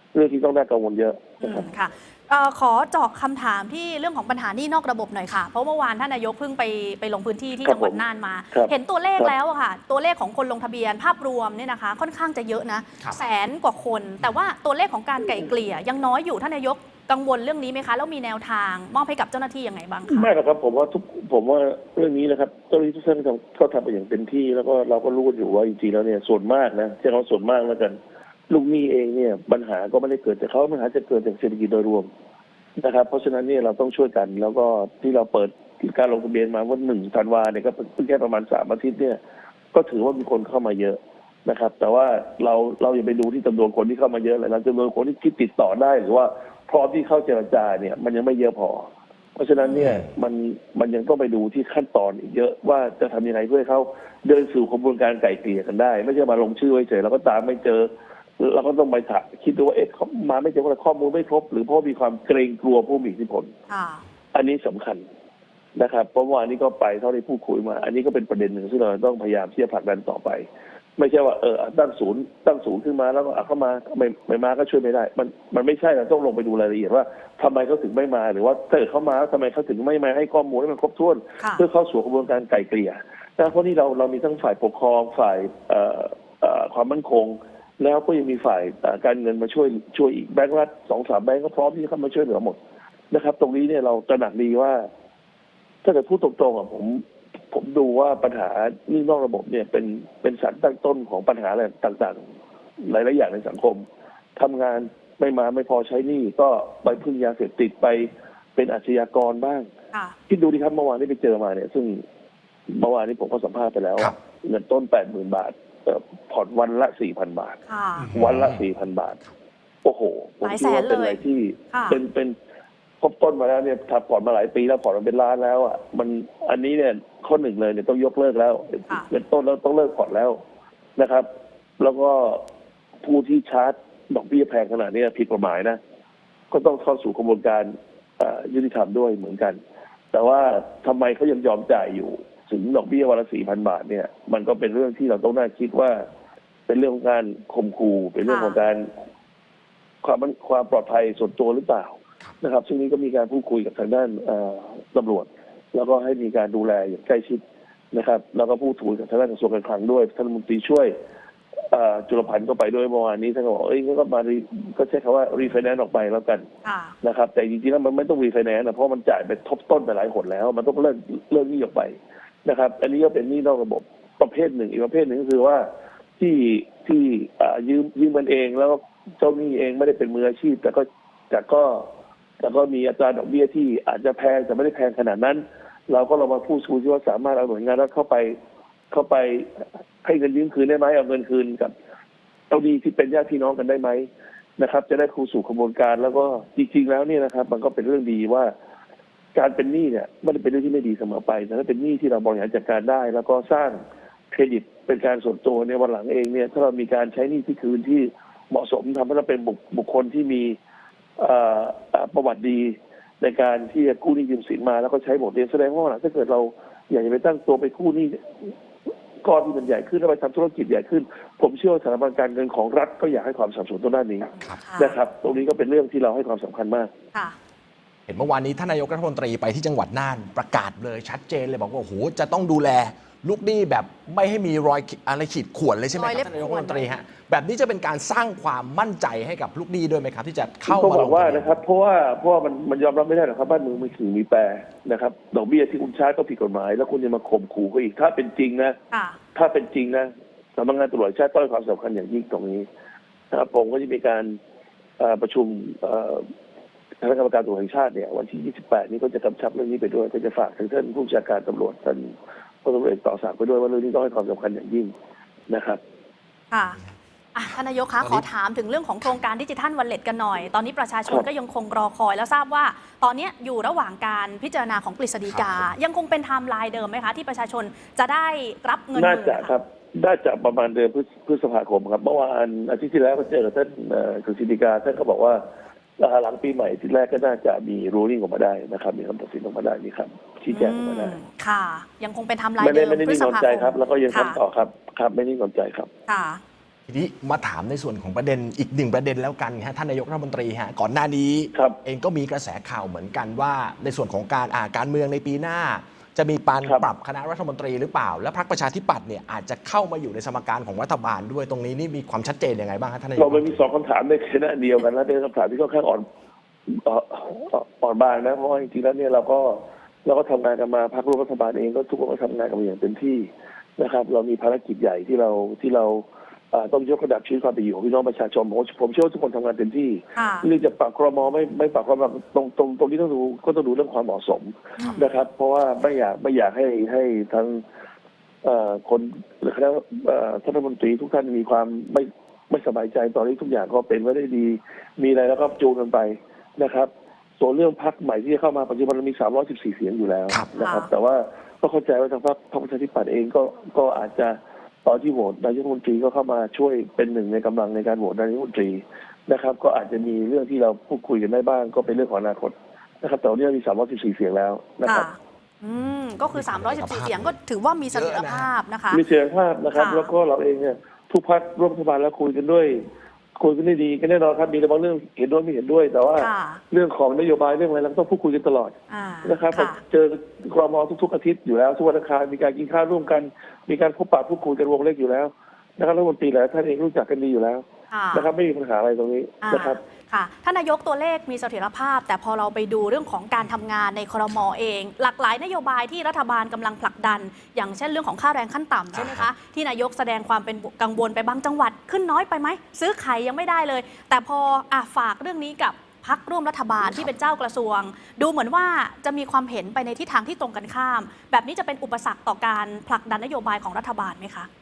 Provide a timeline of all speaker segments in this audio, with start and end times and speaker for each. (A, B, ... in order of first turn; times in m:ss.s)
0:00.1-0:01.7 A
0:01.4-0:20.3 B
0:07.6-0:08.0 A
0:08.5-0:09.3 A
0:20.1-0:28.0 A
0:28.5-0:32.1 A
0:32.8-0:39.2 A
0:39.7-1:03.5 A
0:49.6-0:49.9 B
0:49.8-0:50.1 C
1:03.7-1:04.0 B
1:04.3-1:05.0 A
1:05.8-1:32.6 A
1:33.1-1:34.9 A
1:35.8-1:42.2 A
1:42.8-1:43.8 A
1:44.4-1:49.7 A
1:50.3-1:52.0 A
1:52.7-1:57.6 A
1:57.7-1:58.1 B
1:58.0-1:58.6 C
1:58.1-1:59.2 A
1:59.8-2:02.4 A
2:00.4-2:01.2 B
2:01.7-2:02.0 B
2:03.0-2:10.4 A
2:11.0-2:11.3 A
2:11.8-2:12.4 A
2:13.0-2:15.8 A
2:16.5-2:19.6 A
2:20.1-2:26.1 A
2:26.7-2:28.9 A
2:28.3-2:28.6 B
2:30.0-2:37.4 A
2:37.9-2:40.9 A
2:41.7-2:46.5 A
2:46.6-2:46.9 B
2:47.0-2:55.6 A
2:56.2-3:01.9 A
3:02.4-3:08.4 A
3:08.9-3:11.7 A
3:12.5-3:18.5 A
3:19.3-3:23.8 A
3:24.3-3:30.6 A
3:31.2-3:38.5 A
3:39.2-3:46.9 A
3:44.6-3:45.0 B
3:48.1-4:01.6 C
3:55.9-3:57.0 B
4:00.7-4:08.8 A
4:08.9-4:09.2 B
4:09.3-4:12.6 A
4:13.3-4:14.4 A
4:15.0-4:16.3 A
4:17.0-4:24.9 A
4:25.5-4:25.8 A
4:26.5-4:26.8 B
4:27.3-4:39.5 B
4:28.0-4:28.2 C
4:35.3-4:35.7 C
4:38.9-4:45.4 A
4:46.0-4:51.2 A
4:50.5-4:54.4 B
4:52.6-4:55.9 A
4:56.1-4:56.4 B
4:56.9-5:13.6 C
5:01.5-5:01.8 A
5:13.2-5:16.0 A
5:16.7-5:37.6 A
5:30.1-5:30.5 B
5:34.8-5:35.0 B
5:38.4-6:05.1 A
5:50.5-5:50.9 B
6:04.8-6:09.0 B
6:06.3-6:07.3 C
6:07.9-6:08.5 C
6:08.9-6:12.8 A
6:09.7-6:10.1 B
6:13.4-6:29.8 A
6:16.2-6:16.6 B
6:18.9-6:19.8 B
6:27.9-6:28.3 B
6:29.4-6:54.5 B
6:38.9-6:39.3 C
6:46.8-6:47.1 C